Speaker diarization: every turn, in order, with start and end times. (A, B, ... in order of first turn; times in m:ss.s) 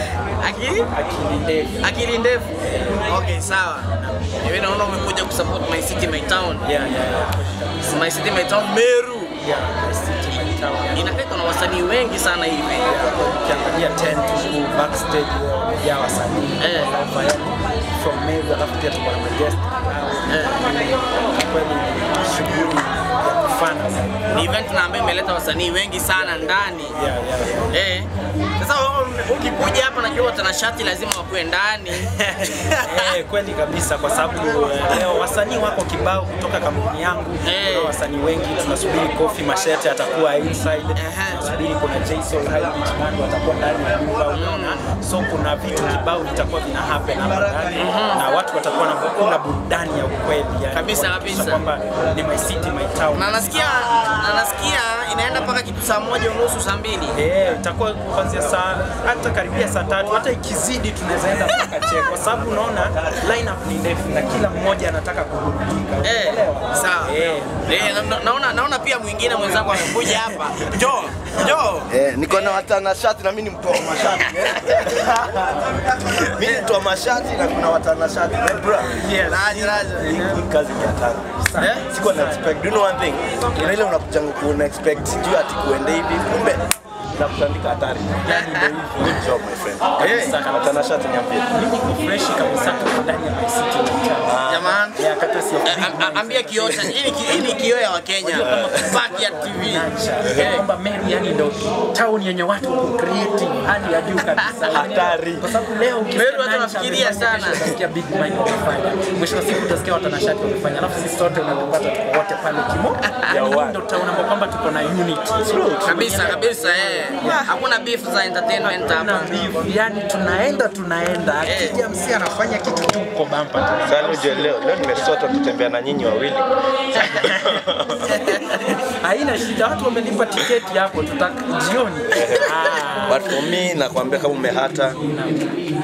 0:00.4-0:00.9 A
0:00.9-0:01.9 B
0:01.8-0:06.6 A
0:02.6-0:03.0 B
0:03.9-0:04.4 B
0:06.6-0:08.3 B
0:07.9-0:09.3 A
0:09.4-0:11.2 B
0:10.9-0:13.0 A
0:12.8-0:24.6 B
0:16.6-0:16.9 A
0:20.3-0:20.6 A
0:24.3-0:27.0 A
0:26.1-0:27.7 B
0:27.7-0:33.1 A
0:32.1-0:53.8 B
0:37.4-0:38.0 A
0:41.0-0:41.4 A
0:44.3-0:44.8 A
0:47.7-0:48.2 A
0:50.7-0:51.6 A
0:53.1-0:57.2 A
0:57.1-1:08.2 B
1:06.0-1:12.7 A
1:09.3-1:10.4 B
1:11.9-1:21.3 C
1:14.2-1:14.9 A
1:18.9-1:20.4 B
1:19.2-1:20.1 A
1:21.4-1:22.6 B
1:21.6-1:21.8 A
1:21.9-1:28.2 C
1:28.2-1:29.3 B
1:28.3-1:28.7 A
1:28.9-1:31.5 C
1:30.0-1:30.9 B
1:30.0-1:30.4 A
1:31.4-1:57.5 B
1:34.2-1:34.8 C
1:34.5-1:35.0 A
1:35.6-1:40.6 A
1:38.4-1:38.9 C
1:44.4-1:44.8 A
1:44.7-1:45.5 C
1:46.1-1:47.6 A
1:53.1-1:53.4 A
1:53.3-1:53.8 C
1:55.8-1:59.4 A
1:58.6-2:05.1 B
2:01.4-2:01.8 A
2:03.8-2:08.1 C
2:06.9-2:13.4 B
2:07.0-2:07.2 A
2:08.1-2:08.6 A
2:12.1-2:15.0 C
2:15.0-2:15.5 B